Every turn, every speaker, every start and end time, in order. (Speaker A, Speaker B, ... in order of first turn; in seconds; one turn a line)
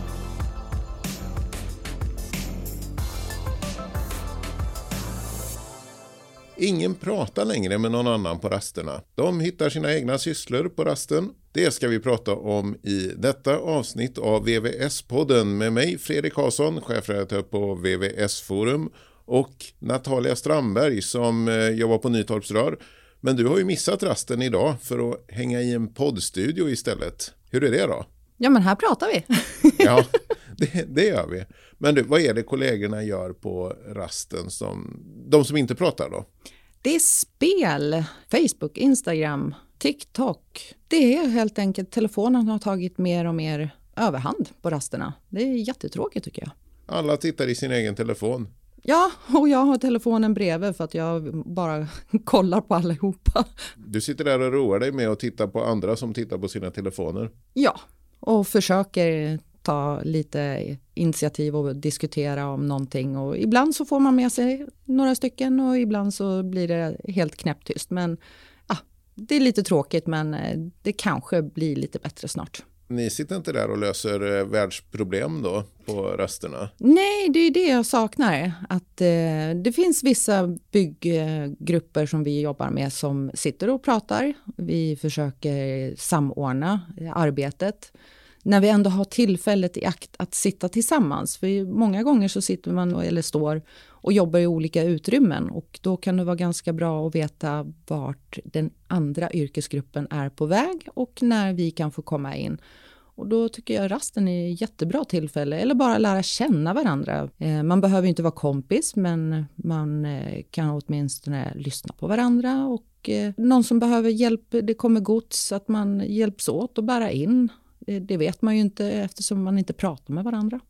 Speaker A: 6.6-28.1
Speaker B: 28.4-30.0
Speaker A: 29.8-36.3
Speaker B: 36.8-46.5
Speaker A: 46.9-48.5
Speaker B: 48.9-53.5
Speaker A: 53.8-57.3
Speaker B: 57.5-72.6
Speaker A: 72.9-76.7
Speaker B: 76.8-87.9
Speaker B: 88.5-102.6
Speaker B: 103.2-120.6